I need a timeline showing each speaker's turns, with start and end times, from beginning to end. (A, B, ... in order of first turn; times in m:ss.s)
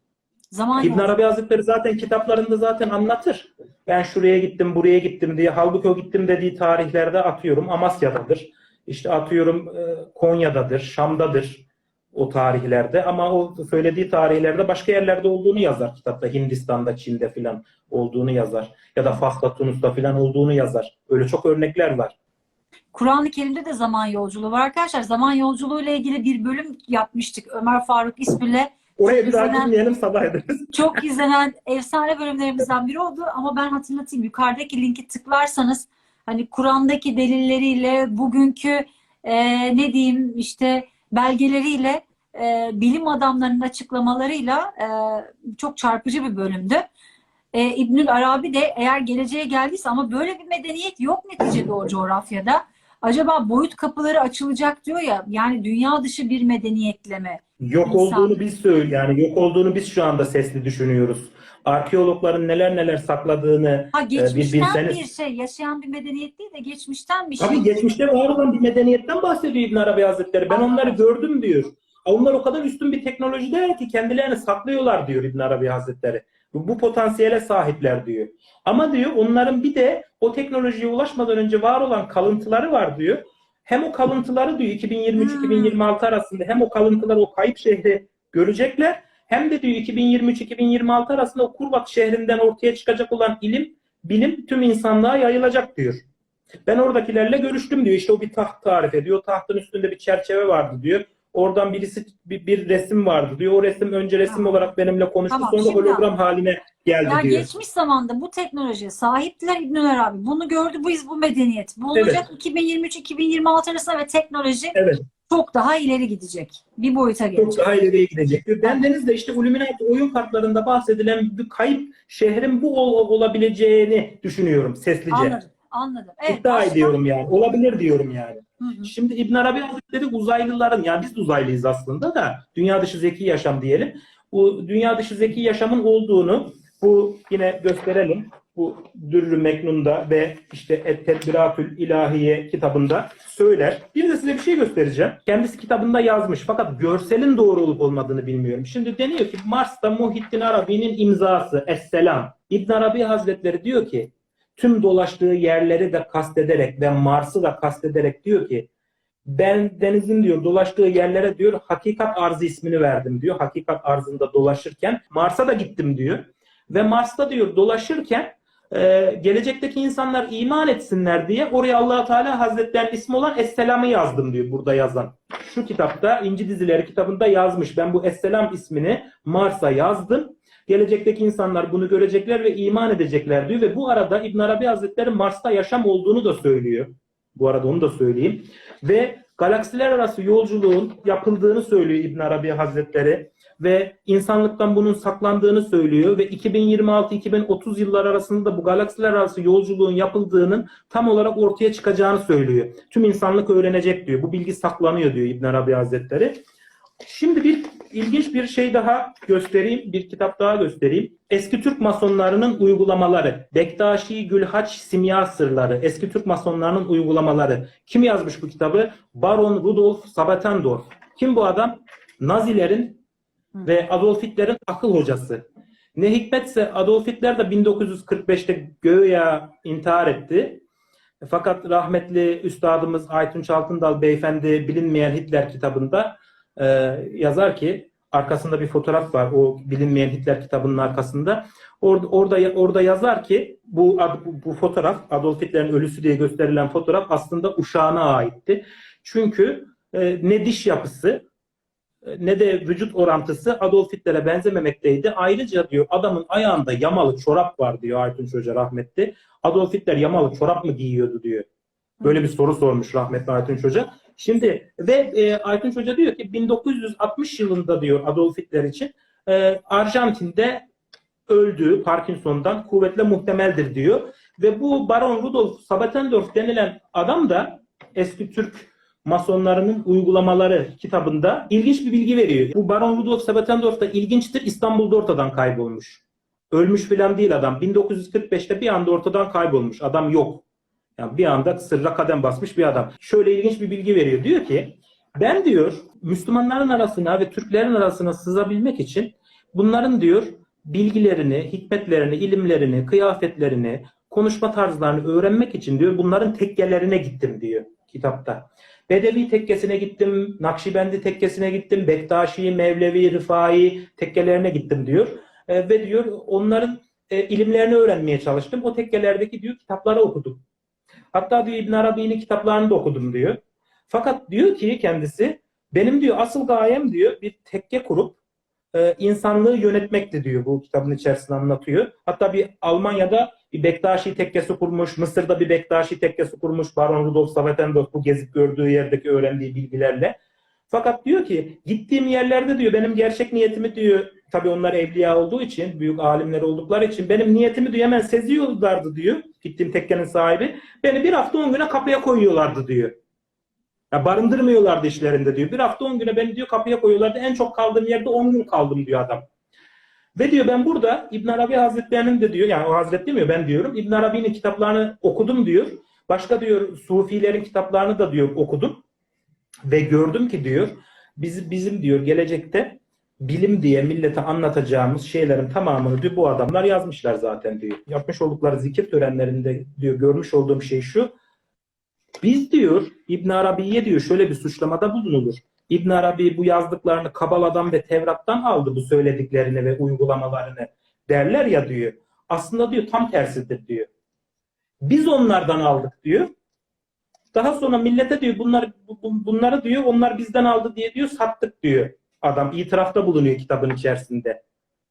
0:00.5-0:01.2 A
0:00.8-0:22.1 B
0:22.9-0:29.7 A
0:29.0-0:30.7 B
0:30.7-0:46.8 A
0:47.5-0:58.3 A
0:57.6-1:05.0 B
1:03.9-1:07.9 A
1:07.4-1:36.0 B
1:10.5-1:11.0 A
1:25.2-1:25.8 A
1:36.6-1:47.5 B
1:44.3-1:44.6 A
1:45.3-1:46.0 A
1:47.0-1:54.8 A
1:51.9-1:52.2 B
1:54.7-1:55.0 B
1:55.3-1:57.6 A
1:57.4-2:05.4 B
2:05.1-2:07.0 A
2:06.3-2:38.7 B
2:08.6-2:08.9 A
2:39.2-3:26.4 B
3:27.0-3:43.0 B
3:43.6-3:45.4 B
3:46.0-3:50.6 B
3:51.2-4:11.2 B
4:12.0-4:21.5 B
4:22.0-4:30.6 B
4:31.3-4:50.4 B
4:51.0-5:20.4 B
5:21.1-5:28.2 B
5:28.7-5:40.2 B
5:40.7-5:53.0 B
5:53.9-5:59.2 B
6:00.2-6:08.8 B
6:09.7-6:21.1 B
6:22.2-6:33.9 B
6:34.8-6:36.3 B
6:37.3-6:44.4 B